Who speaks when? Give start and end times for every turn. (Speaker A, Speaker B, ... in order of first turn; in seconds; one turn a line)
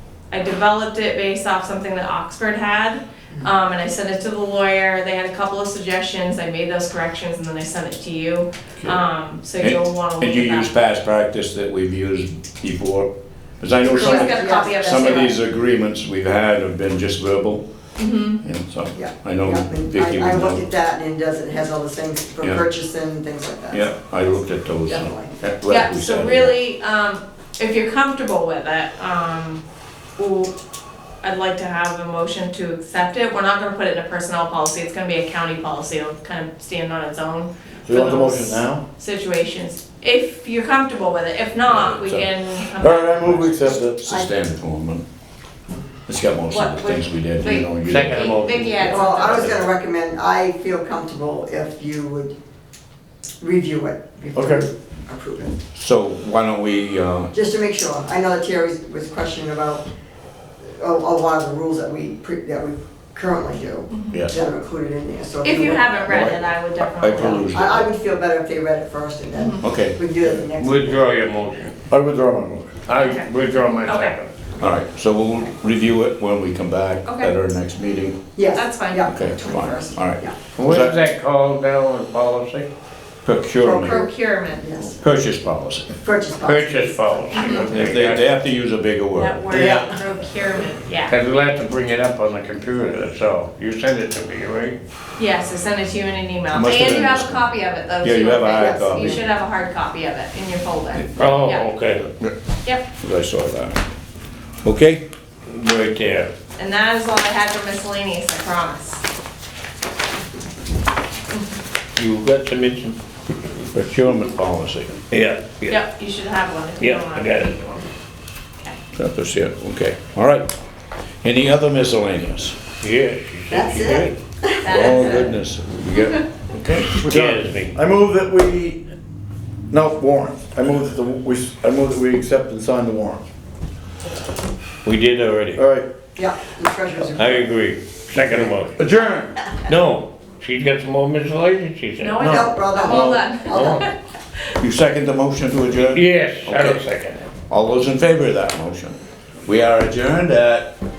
Speaker A: 0.3-10.7
Speaker B: 9.6-17.6
Speaker C: 13.8-15.3
Speaker A: 13.9-15.3
Speaker A: 18.0-18.4
Speaker B: 18.4-20.7
Speaker C: 18.9-23.9
Speaker B: 23.7-26.5
Speaker C: 24.9-25.4
Speaker A: 25.6-29.6
Speaker A: 30.2-30.5
Speaker A: 31.2-43.7
Speaker D: 37.9-38.8
Speaker B: 41.6-42.3
Speaker D: 42.8-44.0
Speaker B: 43.5-45.0
Speaker B: 46.0-48.4
Speaker A: 46.5-49.6
Speaker E: 47.8-49.6
Speaker C: 48.9-52.3
Speaker C: 53.4-55.5
Speaker D: 54.4-54.7
Speaker B: 55.7-57.3
Speaker C: 57.3-59.8
Speaker C: 60.6-66.4
Speaker A: 63.9-64.2
Speaker A: 65.4-67.8
Speaker B: 66.1-66.4
Speaker B: 67.0-67.9
Speaker C: 67.2-71.0
Speaker A: 69.3-69.6
Speaker B: 69.6-70.0
Speaker D: 70.2-70.5
Speaker E: 70.5-71.8
Speaker D: 71.9-72.7
Speaker E: 72.8-74.3
Speaker A: 73.0-73.3
Speaker A: 73.8-74.1
Speaker B: 74.6-78.2
Speaker A: 77.0-77.3
Speaker C: 78.3-80.4
Speaker A: 78.5-79.0
Speaker B: 79.0-80.9
Speaker E: 80.5-82.7
Speaker B: 83.2-84.0
Speaker C: 83.6-85.0
Speaker A: 83.8-84.7
Speaker B: 85.0-85.9
Speaker C: 86.0-87.8
Speaker E: 86.4-88.2
Speaker A: 87.3-87.7
Speaker B: 87.6-89.4
Speaker A: 89.1-91.2
Speaker C: 89.5-90.0
Speaker E: 91.1-94.8
Speaker A: 95.2-101.7
Speaker B: 96.5-97.5
Speaker B: 98.0-99.2
Speaker C: 98.5-99.2
Speaker E: 101.2-102.1
Speaker B: 103.0-103.8
Speaker B: 104.6-105.0
Speaker E: 105.5-106.3
Speaker A: 106.6-109.0
Speaker E: 112.0-113.0
Speaker B: 113.7-115.0
Speaker E: 115.1-115.8
Speaker A: 115.7-117.8
Speaker E: 116.8-117.5
Speaker B: 118.9-120.5
Speaker B: 121.2-122.6
Speaker E: 122.8-124.2
Speaker C: 123.5-125.3
Speaker A: 124.6-125.3
Speaker B: 124.6-127.0
Speaker E: 126.9-127.7
Speaker D: 127.0-128.8
Speaker D: 129.7-133.2
Speaker E: 134.8-135.6
Speaker D: 135.6-135.9
Speaker C: 136.2-137.5
Speaker E: 137.2-138.7
Speaker D: 138.2-139.4
Speaker E: 139.6-142.2
Speaker A: 142.0-143.9
Speaker D: 142.2-143.2
Speaker C: 142.2-143.8
Speaker E: 143.5-143.8
Speaker B: 144.6-146.8
Speaker E: 145.9-147.3
Speaker B: 147.5-150.7